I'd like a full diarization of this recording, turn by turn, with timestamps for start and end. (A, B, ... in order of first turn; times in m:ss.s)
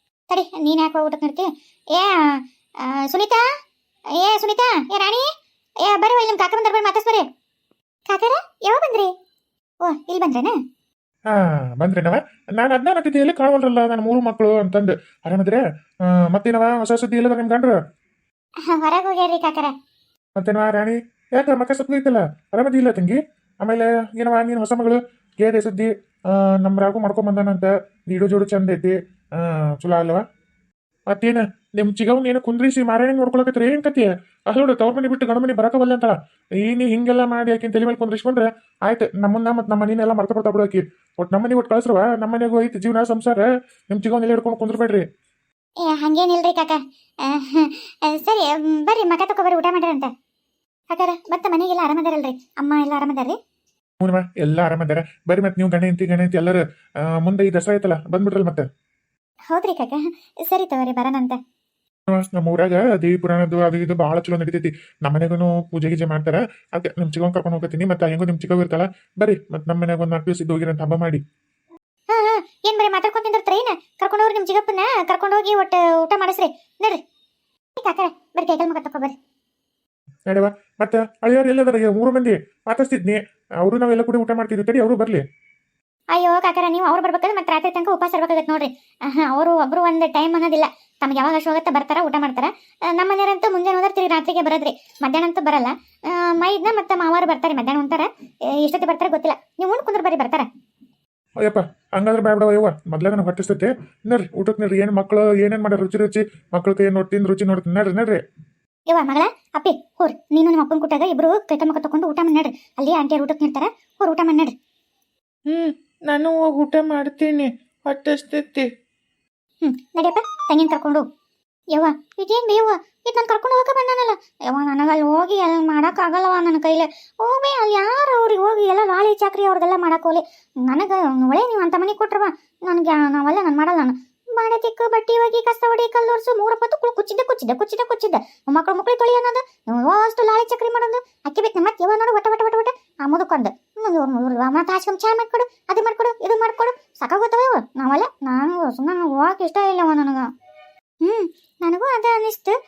0:00.3-0:03.4 A
0:04.2-0:05.3 A
0:05.8-0:07.3 A
0:08.1-0:09.1 A
0:09.8-0:10.5 A
0:11.3-0:17.8 B
0:18.6-0:19.7 A
0:20.4-0:30.2 B
0:31.1-0:45.0 B
0:45.8-0:50.1 A
0:50.9-0:53.4 A
0:54.0-0:58.7 B
0:59.5-1:01.4 A
1:02.1-1:11.2 B
1:12.1-1:17.0 A
1:17.8-1:19.1 A
1:20.3-1:25.2 B
1:26.1-1:40.5 A
1:41.4-1:48.2 B
1:48.9-1:54.5 A
1:55.5-1:58.7 C
1:59.6-2:01.0 A
2:01.7-2:30.3 A
2:31.0-2:32.6 A